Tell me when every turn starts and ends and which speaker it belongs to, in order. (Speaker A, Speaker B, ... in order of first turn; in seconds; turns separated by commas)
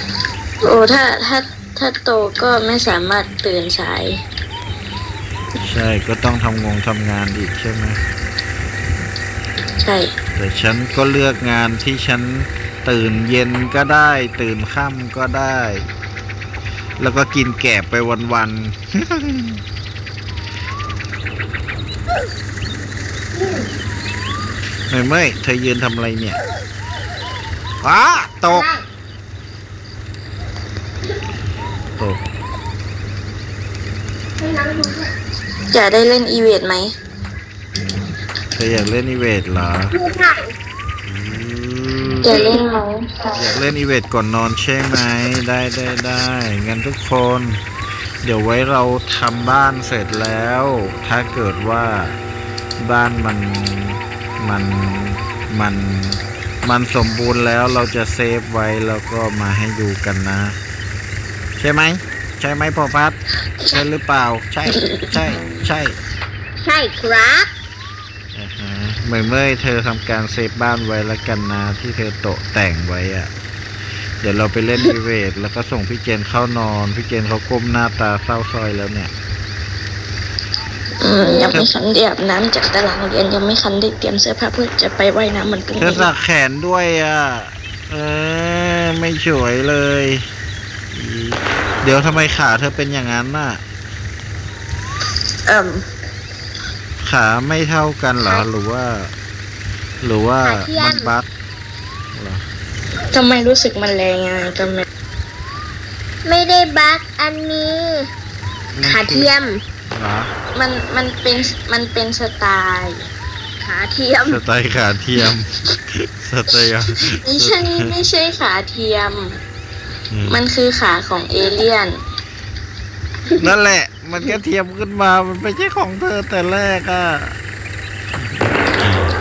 Speaker A: 0.6-4.2, Speaker B: 5.6-8.0, Speaker A: 9.8-10.1, Speaker B: 10.3-15.8, Speaker B: 17.0-19.6, Speaker C: 23.4-23.7, Speaker B: 24.9-26.4, Speaker B: 27.8-28.7, Speaker C: 28.5-28.8, Speaker B: 32.0-32.2, Speaker C: 34.4-35.1, Speaker A: 35.7-36.9, Speaker B: 37.8-40.0, Speaker C: 39.9-40.5, Speaker B: 41.0-42.4, Speaker A: 42.2-43.1, Speaker B: 43.3-47.6, Speaker B: 48.2-52.2, Speaker B: 52.8-60.6, Speaker B: 61.6-66.0, Speaker C: 66.6-67.5, Speaker B: 68.3-73.3, Speaker B: 74.2-79.1, Speaker A: 81.0-86.1, Speaker C: 81.2-81.6, Speaker B: 85.8-90.2, Speaker B: 90.9-93.6, Speaker A: 95.5-95.8, Speaker B: 97.0-99.1, Speaker B: 100.0-101.3, Speaker C: 100.4-101.1, Speaker B: 102.1-102.4, Speaker A: 103.1-104.9, Speaker C: 106.2-108.1, Speaker B: 108.8-109.3, Speaker C: 108.8-109.6, Speaker B: 109.9-110.3, Speaker A: 110.5-113.1, Speaker C: 113.6-114.4, Speaker B: 114.2-115.5, Speaker B: 116.1-117.9, Speaker A: 117.1-119.4, Speaker B: 120.1-120.4, Speaker A: 120.3-122.0, Speaker B: 123.3-127.3, Speaker B: 128.2-129.1